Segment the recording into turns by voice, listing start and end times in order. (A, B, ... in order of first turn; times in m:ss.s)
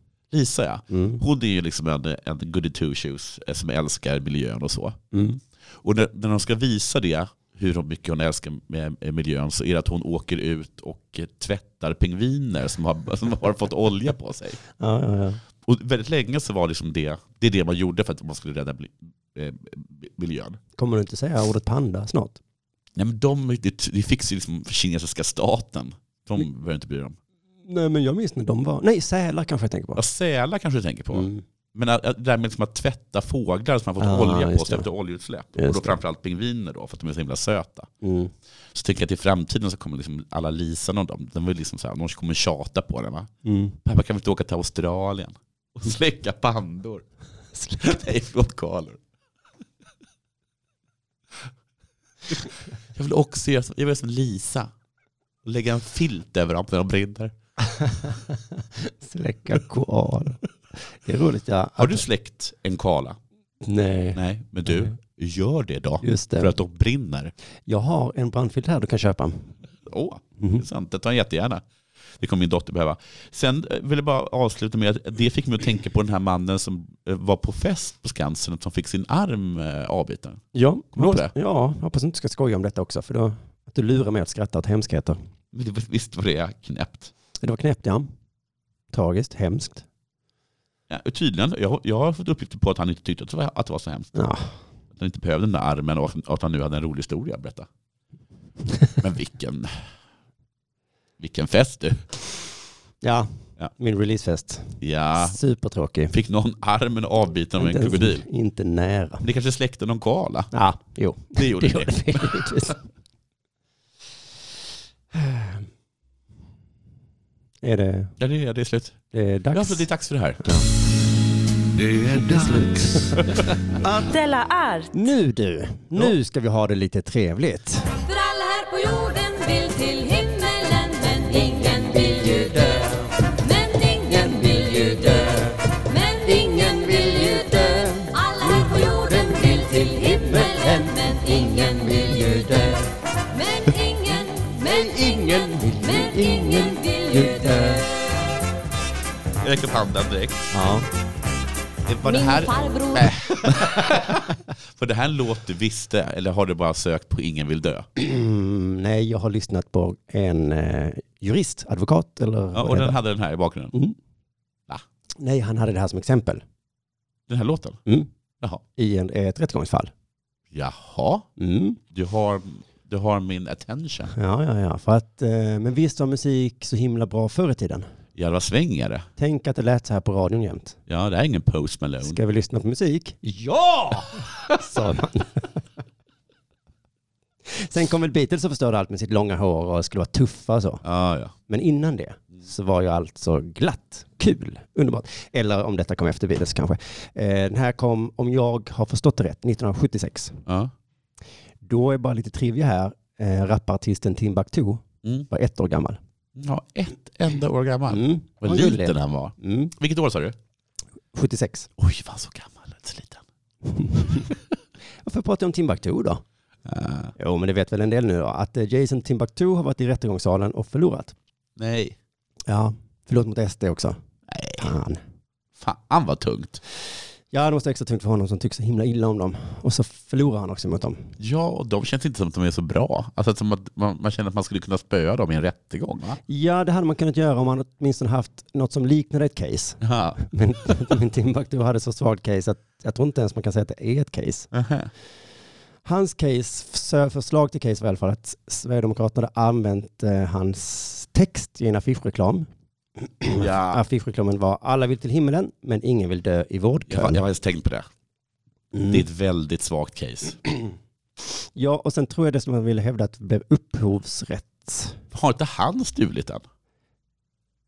0:00.3-0:05.0 A
0:00.9-0:01.2 B
0:05.1-0:05.4 B
0:05.8-0:14.6 A
0:14.8-0:15.4 B
0:15.6-0:20.6 A
0:20.8-0:22.4 B
0:23.0-0:27.2 A
0:27.7-0:30.0 B
0:30.0-0:37.9 A
0:31.1-0:31.4 B
0:34.0-0:34.9 B
0:35.6-0:36.0 B
0:38.0-0:38.3 B
0:38.7-0:43.3 A
0:43.4-0:43.8 B
0:43.8-0:47.0 A
0:47.6-0:47.9 B
0:47.8-0:49.0 A
0:52.3-0:54.7 A
0:55.4-0:57.3 A
0:57.7-1:02.0 B
1:01.8-1:03.2 A
1:03.6-1:04.9 B
1:04.2-1:07.3 A
1:06.0-1:06.5 B
1:07.7-1:09.5 B
1:09.9-1:11.6 A
1:10.4-1:10.6 B
1:12.2-1:20.4 A
1:20.5-1:25.2 B
1:20.9-1:21.3 A
1:25.5-1:27.1 A
1:27.4-1:28.1 B
1:28.9-1:29.8 B
1:30.9-1:34.2 A
1:34.2-1:34.5 B
1:34.9-1:37.7 A
1:39.0-1:39.8 A
1:41.2-1:42.3 A
1:43.0-1:46.1 B
1:44.8-1:45.4 A
1:46.1-1:48.2 A
1:47.6-1:49.2 B
1:49.2-1:50.5 A
1:50.5-1:52.8 B
1:51.4-1:52.7 A
1:55.1-1:55.6 B
1:57.6-1:58.2 B
1:58.2-1:59.0 A
1:59.1-1:59.9 B
1:59.5-2:00.5 A
2:00.4-2:00.7 B
2:01.9-2:04.1 B
2:03.9-2:04.9 C
2:04.9-2:07.9 B
2:08.0-2:22.6 C
2:11.4-2:13.3 B
2:14.0-2:15.6 B
2:16.2-2:22.9 B
2:23.3-2:27.9 C
2:24.6-2:27.8 B
2:29.4-2:30.5 A
2:30.5-2:30.9 B
2:31.9-2:37.9 A
2:32.0-2:33.2 C
2:38.0-2:43.0 B
2:42.5-2:43.7 A
2:45.2-2:46.4 B
2:47.3-2:47.8 A
2:48.8-2:49.9 B
2:50.5-2:51.3 A
2:51.4-2:51.8 B
2:51.9-2:54.1 A
2:54.1-2:57.9 B
2:58.2-2:59.1 A
2:59.2-3:00.8 B
3:00.9-3:02.2 A
3:02.0-3:05.6 B
3:07.5-3:10.8 B
3:10.8-3:11.3 A
3:11.5-3:20.4 B
3:20.5-3:20.7 A
3:21.6-3:26.0 B
3:26.4-3:30.4 A
3:27.9-3:29.7 B
3:31.1-3:31.7 B
3:31.8-3:33.2 A
3:33.7-3:34.3 B
3:35.0-3:36.2 B
3:36.7-3:37.1 A
3:37.2-3:41.2 B
3:41.6-3:42.0 A
3:42.5-3:44.0 B
3:44.3-3:44.7 A
3:44.6-3:45.0 B
3:45.6-3:46.6 A
3:47.3-3:51.1 B
3:51.2-3:56.2 A
3:56.3-4:04.5 B
3:59.8-4:00.2 A
4:04.5-4:04.9 A
4:05.8-4:12.5 B
4:13.0-4:17.2 B
4:13.3-4:13.8 A
4:16.9-4:17.9 A
4:18.7-4:19.0 B
4:18.9-4:20.4 A
4:21.6-4:25.0 B
4:25.1-4:26.4 A